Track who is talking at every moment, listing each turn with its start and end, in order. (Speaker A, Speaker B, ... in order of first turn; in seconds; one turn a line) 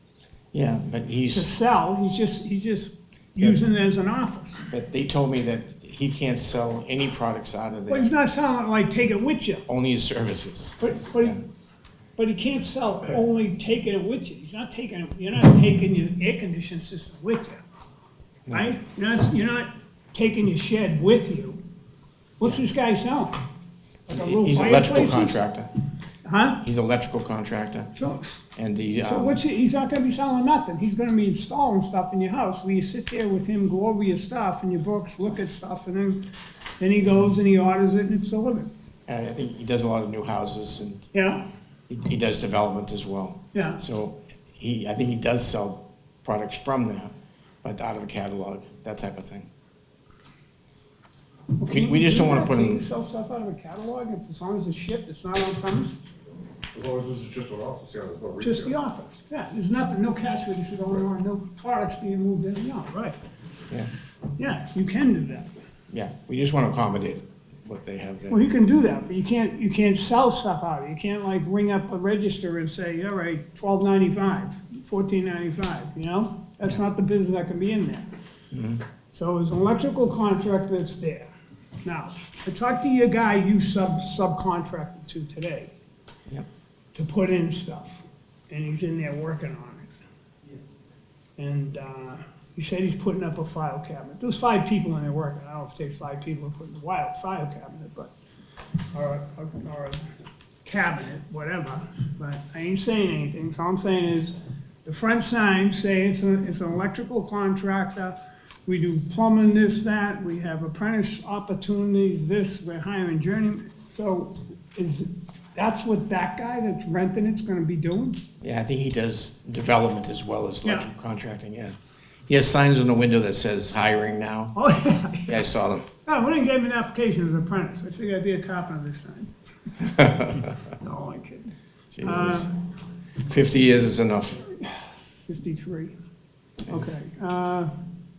Speaker A: 0.5-1.6
Speaker B: 1.3-4.7
Speaker A: 4.7-8.1
Speaker B: 7.9-9.7
Speaker A: 9.7-11.4
Speaker B: 10.8-11.4
Speaker B: 12.2-17.6
Speaker A: 18.5-18.8
Speaker B: 18.5-21.6
Speaker B: 22.4-23.4
Speaker B: 24.1-25.4
Speaker A: 24.1-25.7
Speaker B: 26.2-26.6
Speaker A: 26.6-27.9
Speaker B: 27.9-28.4
Speaker A: 28.6-29.4
Speaker B: 29.0-36.3
Speaker B: 36.8-38.7
Speaker A: 39.1-41.1
Speaker B: 41.1-41.5
Speaker A: 41.9-49.5
Speaker B: 43.5-43.8
Speaker B: 51.6-56.0
Speaker A: 51.7-52.8
Speaker C: 56.7-58.7
Speaker B: 58.4-63.2
Speaker B: 64.4-65.5
Speaker A: 65.9-68.4
Speaker B: 68.3-78.1
Speaker A: 78.5-78.8
Speaker B: 79.1-81.3
Speaker B: 81.8-85.7
Speaker B: 87.0-89.9
Speaker B: 91.4-98.1
Speaker B: 98.9-100.1
Speaker B: 100.6-104.3
Speaker B: 104.8-118.2
Speaker A: 118.4-121.8
Speaker A: 122.3-124.5
Speaker B: 124.5-125.4
Speaker A: 125.3-125.9
Speaker B: 126.0-129.3
Speaker A: 129.8-130.5
Speaker B: 130.8-132.5
Speaker A: 131.9-132.5
Speaker A: 133.2-134.5
Speaker B: 134.5-135.9
Speaker B: 136.7-137.7